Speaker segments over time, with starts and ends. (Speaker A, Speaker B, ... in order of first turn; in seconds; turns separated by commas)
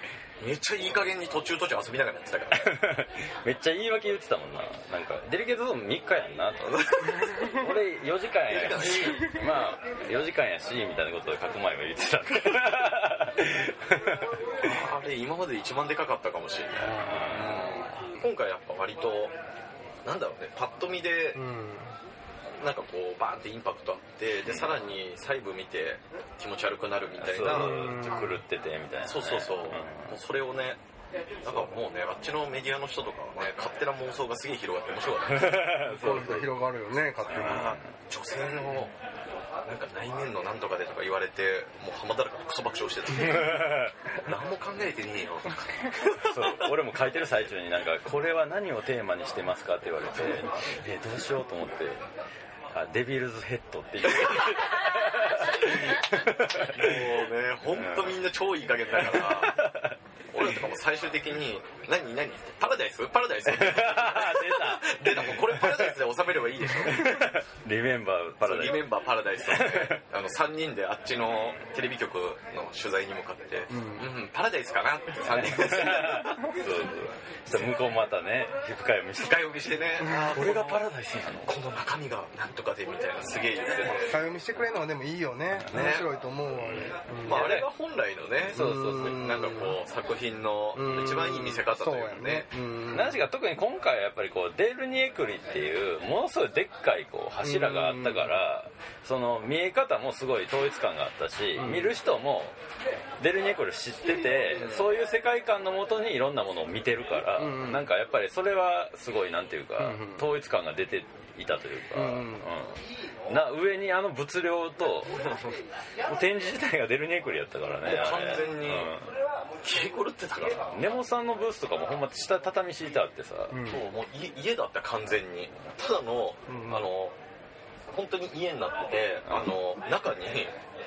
Speaker A: 0.4-2.8, Speaker B: 2.6-14.3, Speaker A: 6.6-7.5, Speaker A: 8.5-9.4, Speaker A: 14.6-19.3, Speaker C: 16.7-17.3, Speaker B: 17.0-17.9, Speaker A: 20.0-21.4, Speaker C: 21.4-21.9, Speaker A: 22.6-27.9, Speaker B: 24.5-24.8, Speaker B: 27.2-30.1, Speaker C: 27.4-28.4, Speaker A: 29.0-30.8, Speaker A: 31.4-36.2, Speaker B: 35.4-36.5, Speaker C: 35.9-37.7, Speaker A: 37.2-39.0, Speaker B: 37.3-37.8, Speaker A: 39.6-46.7, Speaker B: 43.1-43.9, Speaker B: 46.2-52.0, Speaker A: 50.2-50.7, Speaker B: 52.7-57.0, Speaker A: 54.1-54.8, Speaker A: 56.6-59.6, Speaker B: 57.8-58.2, Speaker B: 59.0-60.0, Speaker A: 60.3-67.3, Speaker B: 63.5-66.0, Speaker B: 66.8-68.9, Speaker A: 68.4-76.5, Speaker B: 69.5-70.0, Speaker C: 73.7-74.1, Speaker B: 75.3-79.4, Speaker A: 79.2-80.8, Speaker C: 80.0-80.4, Speaker B: 80.3-81.6, Speaker A: 81.5-84.1, Speaker C: 83.9-87.5, Speaker B: 85.6-85.9, Speaker A: 85.7-86.1, Speaker B: 86.5-87.7, Speaker A: 87.2-92.5, Speaker B: 88.5-89.3, Speaker C: 88.5-89.8, Speaker C: 90.8-93.2, Speaker B: 92.9-102.6, Speaker C: 97.4-98.3, Speaker C: 101.6-102.0, Speaker B: 103.2-115.2, Speaker A: 104.5-104.9, Speaker C: 107.4-107.8, Speaker C: 109.8-110.2, Speaker C: 111.9-112.5, Speaker A: 115.2-115.6, Speaker B: 116.0-119.1, Speaker A: 117.9-118.9, Speaker A: 119.6-120.7, Speaker B: 120.7-123.6, Speaker C: 123.5-123.8, Speaker A: 123.7-127.2, Speaker C: 126.5-126.9, Speaker A: 127.9-130.5, Speaker B: 129.3-129.5